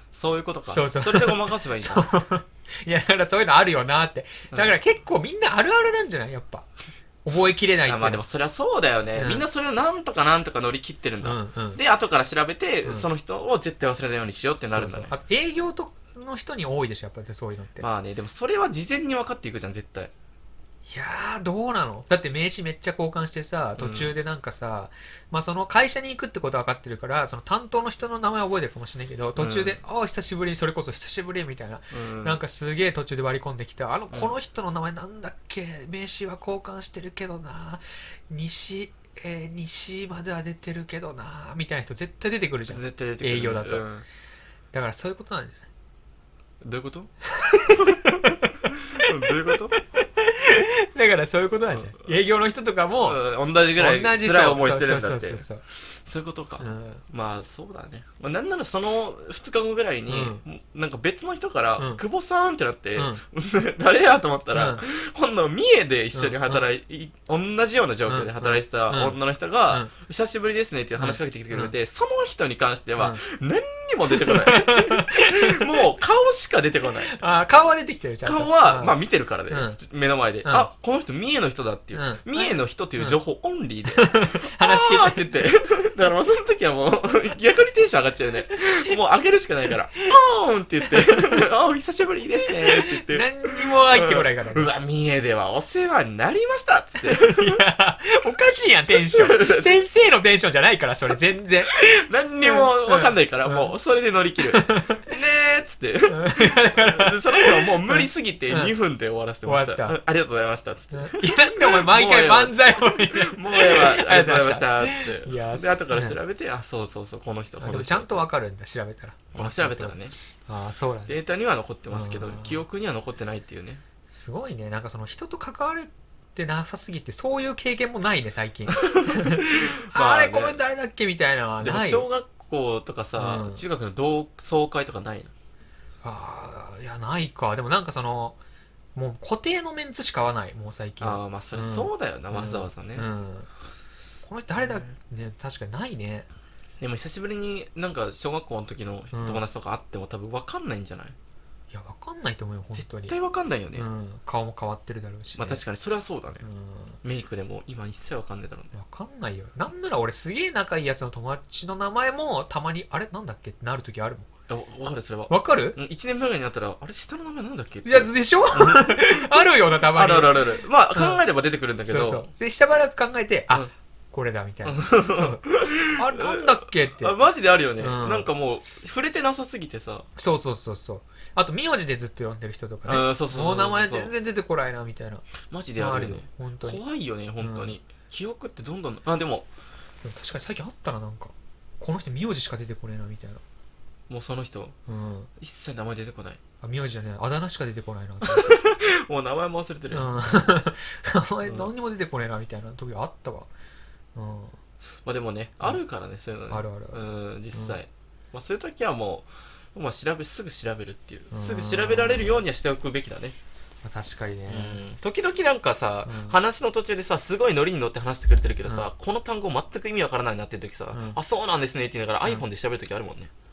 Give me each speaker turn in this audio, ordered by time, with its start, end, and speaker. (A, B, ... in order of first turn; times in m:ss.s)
0:00.1-0:02.1 A
0:00.7-0:06.7 B
0:04.5-0:04.8 A
0:07.2-0:08.2 B
0:07.9-0:15.1 A
0:09.2-0:09.4 B
0:11.2-0:11.8 B
0:14.7-0:17.9 B
0:17.8-0:20.1 A
0:20.9-0:43.8 B
0:23.8-0:24.1 A
0:29.4-0:29.8 A
0:31.9-0:32.4 A
0:42.7-0:44.0 A
0:44.7-0:45.6 B
0:46.6-0:47.1 A
0:47.3-0:53.2 B
0:47.7-0:49.8 A
0:51.7-0:52.1 A
0:53.0-1:17.2 A
0:53.8-0:55.6 B
0:56.6-0:57.0 B
1:00.1-1:00.4 B
1:03.0-1:03.2 B
1:04.5-1:04.8 B
1:06.1-1:06.6 B
1:08.1-1:09.2 B
1:11.0-1:11.7 B
1:14.2-1:15.8 B
1:17.1-1:19.0 B
1:18.2-1:37.6 A
1:19.5-1:19.8 B
1:21.9-1:23.2 B
1:23.9-1:25.3 B
1:32.5-1:34.7 B
1:37.0-1:41.8 B
1:39.0-1:39.8 A
1:41.7-1:58.2 A
1:42.4-1:43.7 B
1:44.5-1:45.0 B
1:46.1-1:48.7 B
1:49.4-1:50.0 B
1:50.9-1:56.2 B
1:57.6-2:00.0 B
1:59.3-2:00.1 A
2:00.5-2:01.2 B
2:01.1-2:03.8 A
2:01.9-2:02.6 B
2:04.1-2:12.1 B
2:08.8-2:10.6 A
2:11.6-2:15.3 A
2:13.2-2:13.6 B
2:16.0-2:18.4 B
2:19.0-2:23.5 B
2:21.0-2:23.1 A
2:24.2-2:26.3 B
2:24.6-2:24.9 A
2:26.8-2:31.2 A
2:29.1-2:29.4 B
2:31.7-2:33.2 B
2:32.8-2:33.9 A
2:33.8-2:35.6 B
2:35.4-2:36.4 A
2:36.4-2:37.0 B
2:37.0-2:38.7 A
2:38.7-2:44.3 B
2:44.5-2:52.3 A
2:45.3-2:45.8 B
2:47.8-2:51.2 B
2:51.9-2:55.4 B
2:54.6-3:00.1 A
2:55.9-2:57.2 B
2:57.8-2:58.3 B
3:00.2-3:05.2 B
3:02.9-3:04.1 A
3:05.5-3:09.5 A
3:05.8-3:06.8 B
3:07.4-3:07.7 B
3:10.0-3:13.4 B
3:14.1-3:14.8 A
3:14.9-3:15.3 B
3:15.4-3:16.4 A
3:16.6-3:18.6 B
3:18.2-3:20.5 A
3:19.9-3:23.5 B
3:24.2-3:24.6 B
3:25.0-3:33.4 A
3:26.5-3:27.0 B
3:31.3-3:32.4 B
3:33.8-3:34.8 B
3:34.5-3:43.3 A
3:36.1-3:36.4 B
3:40.9-3:41.2 B